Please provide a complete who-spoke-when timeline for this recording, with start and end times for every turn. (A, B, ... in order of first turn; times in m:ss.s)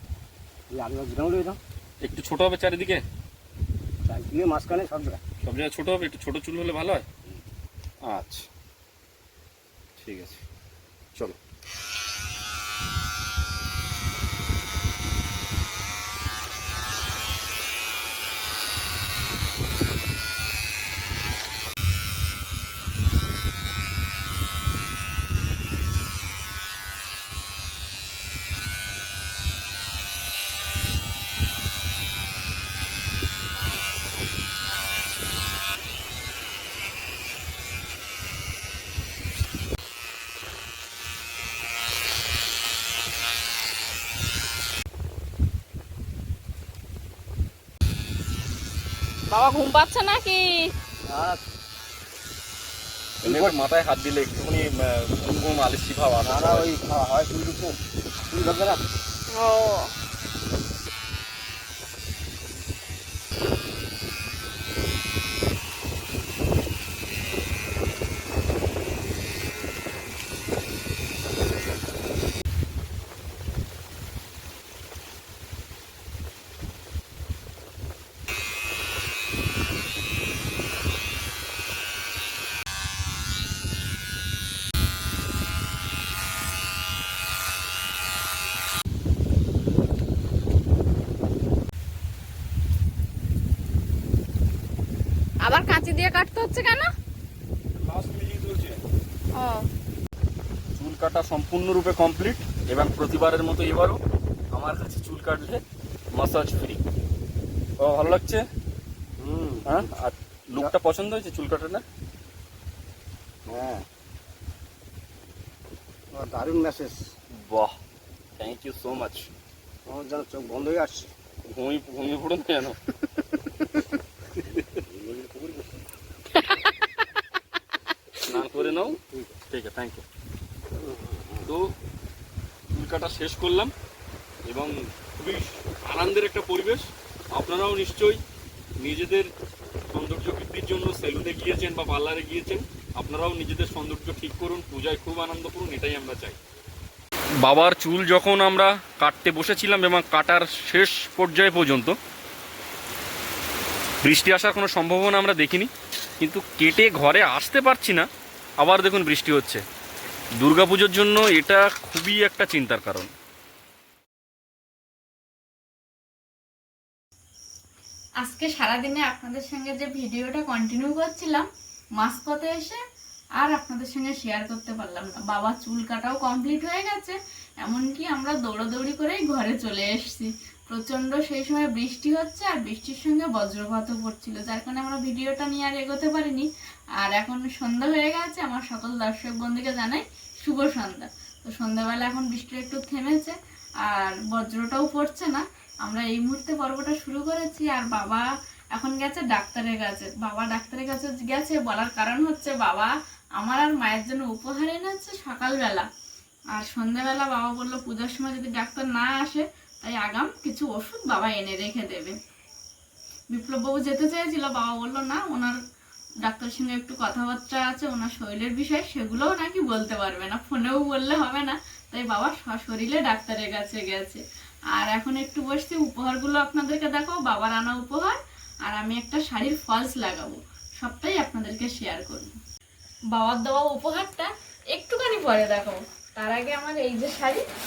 0:00.7-0:01.6 A
0:02.0-0:03.0 B
0:04.0-0:05.2 A
0:05.4-0:07.0 B
0:08.0-0:08.5 B
0:10.0-0:10.4 B
0:49.3-0:50.6 C
0:51.1-0:51.4 A
0:53.2-0:53.5 A
0:53.2-0:56.7 B
0:56.2-0:57.8 A
0:58.3-0:58.8 A
0:59.3-0:59.9 C
1:35.4-1:36.9 C
1:37.8-1:38.8 B
1:39.4-1:39.6 C
1:40.7-1:44.0 B
1:44.5-1:45.6 B
1:46.1-1:46.8 B
1:47.8-1:48.4 B
1:49.2-1:49.9 A
1:49.6-1:51.8 B
1:53.5-1:53.8 A
1:56.1-1:57.1 A
1:57.3-1:57.8 B
1:58.4-1:59.3 B
1:59.9-2:01.1 A
2:01.5-2:02.8 B
2:04.4-2:04.8 B
2:04.8-2:05.7 A
2:08.2-2:10.0 B
2:08.3-2:09.3 A
2:10.9-2:11.4 A
2:12.7-2:13.7 B
2:14.4-2:18.2 B
2:18.8-2:19.3 B
2:19.9-2:26.4 B
2:27.4-2:32.0 B
2:34.0-2:38.1 B
2:38.6-2:39.6 B
2:40.4-2:43.1 B
2:48.2-2:51.5 C
2:52.0-2:52.8 C
2:53.4-3:25.9 C
3:26.5-3:32.2 C
3:33.3-3:35.6 C
3:36.2-3:44.2 C
3:44.7-3:52.3 C
3:53.1-3:57.4 C